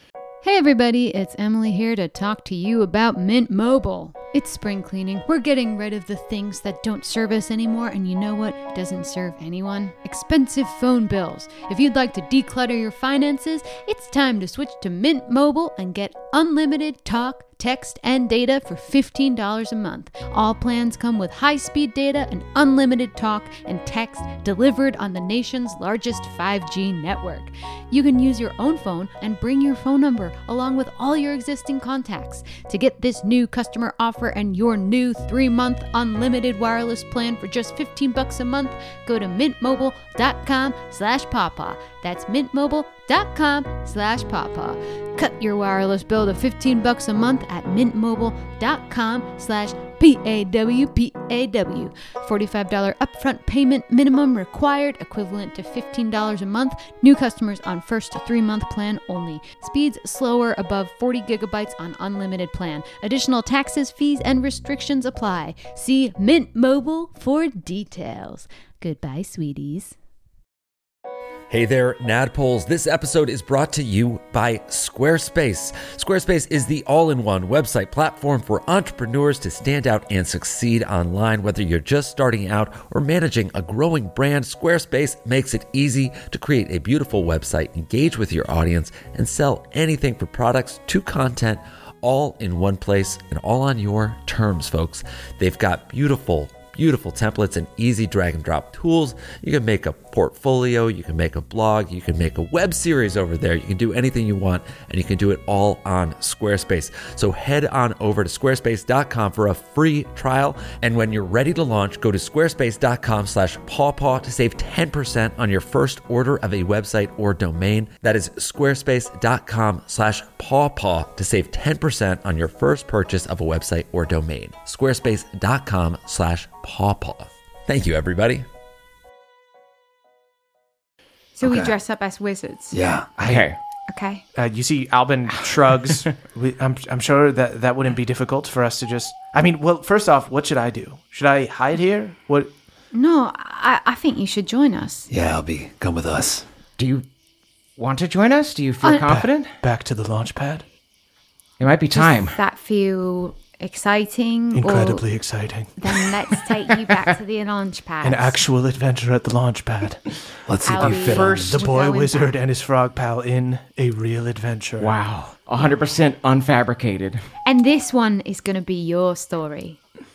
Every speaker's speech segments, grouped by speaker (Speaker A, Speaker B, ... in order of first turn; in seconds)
Speaker A: 0.4-69.9, 131.4-132.8, 133.9-134.2, 142.9-145.1, 151.9-155.0, 155.8-158.4, 160.6-162.3, 167.4-169.8
Speaker B: 71.5-128.4
Speaker C: 131.4-131.7, 132.7-133.1, 145.1-146.4, 160.5-161.6
Speaker D: 133.2-133.5, 134.3-142.5, 148.9-150.6, 154.5-156.1, 158.0-160.1, 161.0-164.9
Speaker E: 133.2-133.6, 146.8-147.1, 147.8-149.5, 151.6-152.4, 160.8-161.5, 164.8-167.2